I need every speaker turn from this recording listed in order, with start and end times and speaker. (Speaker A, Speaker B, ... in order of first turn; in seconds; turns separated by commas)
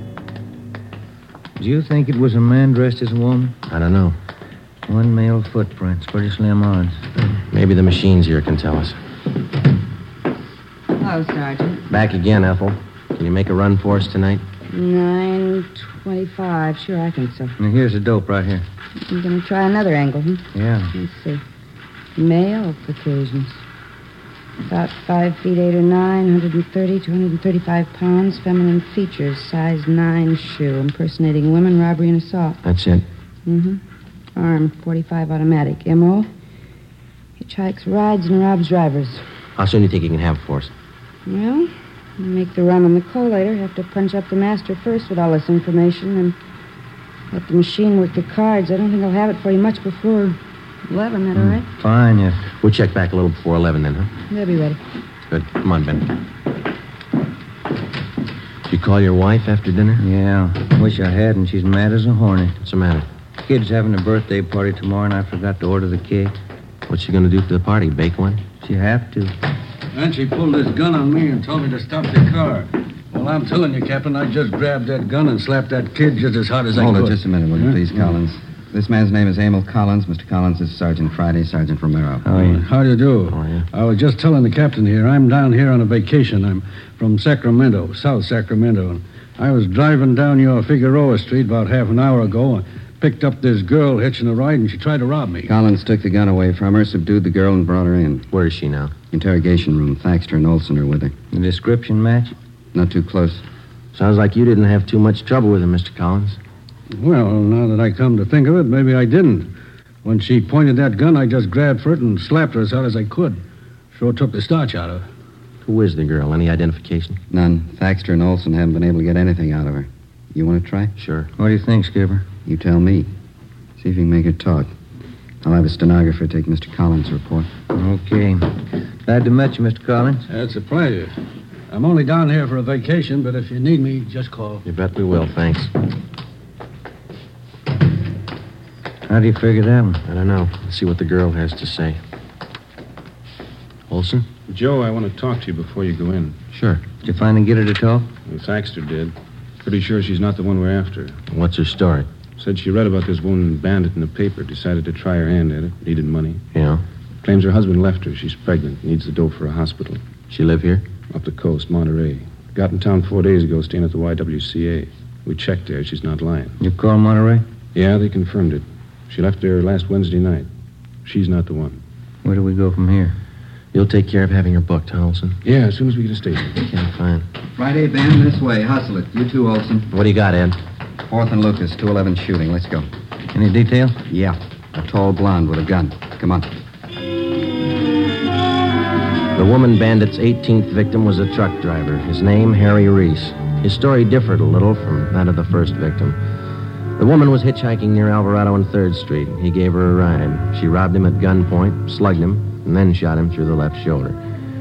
Speaker A: 1.6-3.6, Speaker B: 3.7-4.2, Speaker A: 4.9-7.0, Speaker B: 7.5-9.0, Speaker C: 11.0-11.8, Speaker B: 11.9-14.4, Speaker C: 14.7-17.6, Speaker A: 17.6-18.6, Speaker C: 19.1-21.4, Speaker A: 20.5-20.9, Speaker C: 22.1-23.6, Speaker C: 24.6-32.6, Speaker B: 32.6-33.1, Speaker C: 33.5-33.8, Speaker C: 34.4-36.3, Speaker C: 37.4-39.2, Speaker B: 39.6-40.7, Speaker C: 41.3-46.4, Speaker C: 47.3-51.7, Speaker A: 51.4-52.4, Speaker B: 52.6-54.1, Speaker C: 54.3-54.8, Speaker B: 55.3-56.1, Speaker B: 58.7-60.0, Speaker A: 60.0-62.6, Speaker B: 62.6-63.1, Speaker A: 63.4-66.4, Speaker B: 66.9-68.4, Speaker A: 68.6-69.3, Speaker D: 69.9-78.0, Speaker E: 76.7-82.2, Speaker A: 82.3-82.6, Speaker D: 82.3-95.5, Speaker B: 83.3-83.7, Speaker E: 95.4-98.3, Speaker B: 98.3-98.9, Speaker E: 99.1-101.1, Speaker A: 101.3-102.3, Speaker E: 102.7-103.4, Speaker B: 103.9-106.4, Speaker D: 106.9-109.5, Speaker D: 110.0-113.4, Speaker D: 113.9-115.1, Speaker B: 115.6-117.2, Speaker E: 117.3-120.9, Speaker B: 121.0-121.3, Speaker A: 121.4-122.3, Speaker E: 122.5-123.1, Speaker E: 123.8-124.7, Speaker E: 125.4-127.5, Speaker A: 127.7-130.2, Speaker D: 130.3-131.1, Speaker D: 131.7-134.6, Speaker B: 134.6-135.7, Speaker A: 139.1-140.0, Speaker B: 140.1-142.0, Speaker B: 143.9-144.3, Speaker F: 144.5-146.4, Speaker B: 146.5-146.8, Speaker A: 147.0-148.1, Speaker F: 148.3-151.2, Speaker B: 151.3-152.1, Speaker F: 152.4-156.4, Speaker B: 156.5-156.8, Speaker F: 157.2-160.0, Speaker B: 160.3-160.8, Speaker F: 161.1-166.6, Speaker A: 166.6-167.4, Speaker F: 167.7-170.5, Speaker F: 171.1-171.8, Speaker A: 172.2-173.2, Speaker B: 173.7-175.4, Speaker F: 175.4-176.5, Speaker B: 176.6-177.3, Speaker E: 177.6-179.9, Speaker B: 179.9-180.6, Speaker E: 181.1-182.9, Speaker A: 183.3-184.0, Speaker E: 184.1-186.5, Speaker B: 189.3-196.2, Speaker B: 197.0-204.2